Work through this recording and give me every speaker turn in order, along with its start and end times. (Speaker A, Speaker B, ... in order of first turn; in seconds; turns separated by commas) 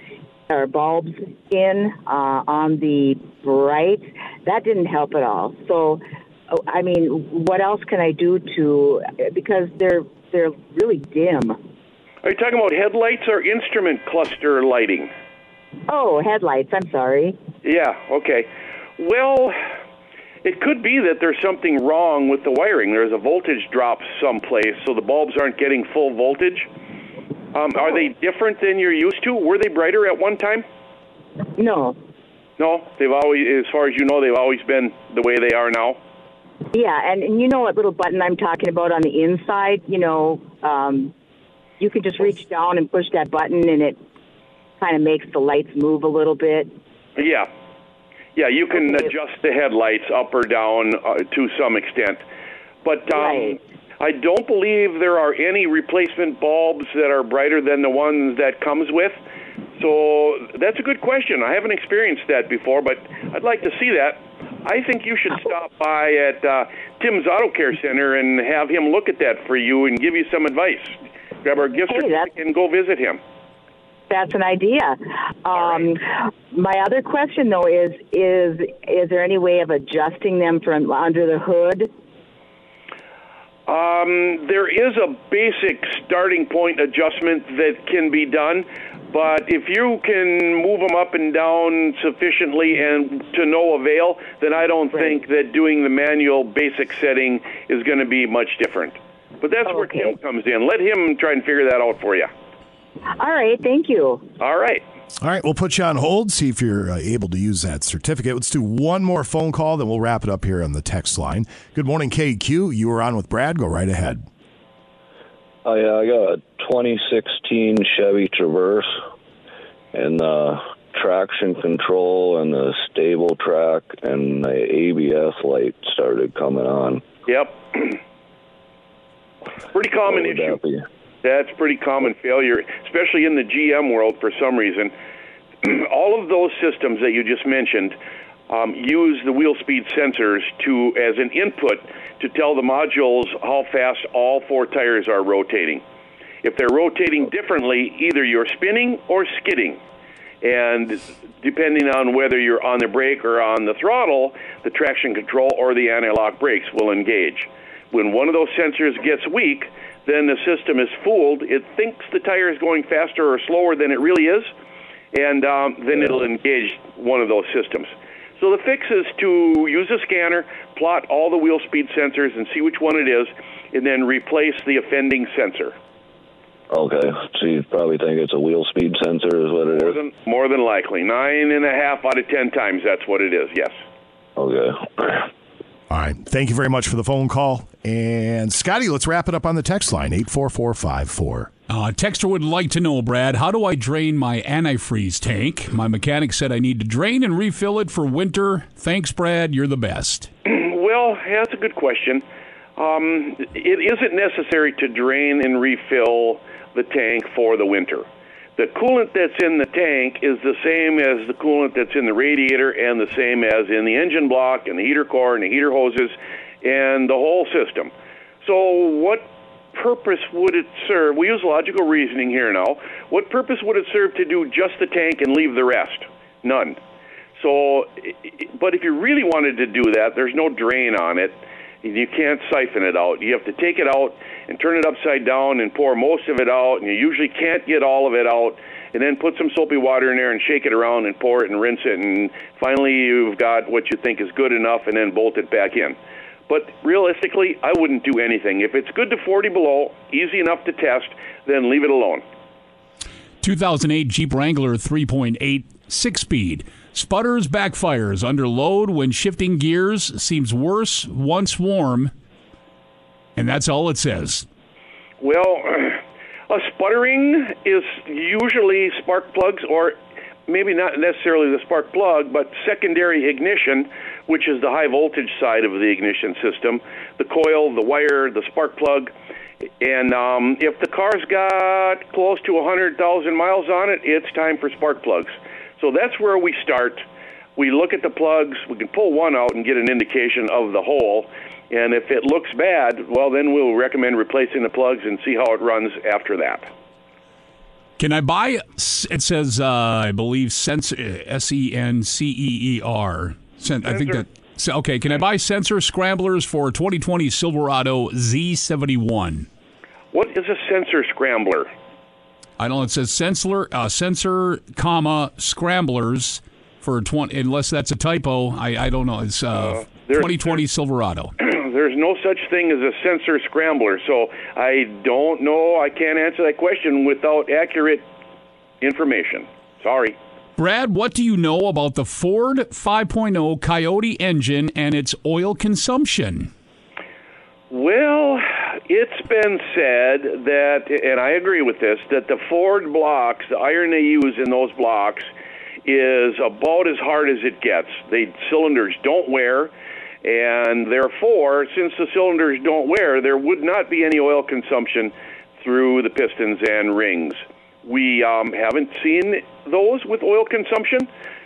Speaker A: 0.5-11.6, Speaker B: 12.2-15.1, Speaker A: 15.9-17.4, Speaker B: 17.6-19.6, Speaker B: 20.4-26.7, Speaker B: 27.5-30.6, Speaker A: 31.6-32.0, Speaker B: 32.6-36.0, Speaker A: 36.7-41.1, Speaker A: 41.8-44.0, Speaker A: 44.8-46.7, Speaker B: 47.2-47.5, Speaker B: 48.4-52.2, Speaker B: 52.8-59.2, Speaker A: 53.1-53.6, Speaker B: 59.8-73.2, Speaker A: 71.9-72.3, Speaker A: 74.1-81.9, Speaker B: 75.5-75.9, Speaker B: 83.7-102.3, Speaker A: 99.7-100.2, Speaker A: 103.2-104.2, Speaker B: 104.4-104.8, Speaker C: 105.2-114.3, Speaker D: 115.7-118.8, Speaker D: 119.9-127.0, Speaker B: 127.3-128.0, Speaker B: 129.7-130.6, Speaker D: 130.1-130.8, Speaker B: 131.2-134.9, Speaker B: 135.6-138.0, Speaker B: 138.5-145.8, Speaker B: 146.4-149.8, Speaker B: 150.4-164.5, Speaker B: 165.1-175.8, Speaker D: 176.7-180.0, Speaker B: 179.7-183.8, Speaker D: 184.4-185.2, Speaker C: 185.9-191.5, Speaker E: 191.7-200.3, Speaker B: 200.5-202.2, Speaker B: 202.8-208.1, Speaker B: 208.6-217.9, Speaker B: 218.4-226.8, Speaker B: 227.4-246.0, Speaker B: 246.5-252.2, Speaker E: 253.4-262.1, Speaker E: 263.4-264.5, Speaker B: 265.2-279.1, Speaker B: 279.8-287.0, Speaker B: 287.6-296.7, Speaker E: 298.0-309.5, Speaker B: 303.9-304.2, Speaker B: 310.1-311.7, Speaker E: 312.6-321.3, Speaker B: 319.5-320.6, Speaker B: 321.4-328.1, Speaker B: 328.8-330.2, Speaker E: 330.6-336.5, Speaker B: 337.7-345.3, Speaker B: 345.9-349.7, Speaker B: 350.2-361.1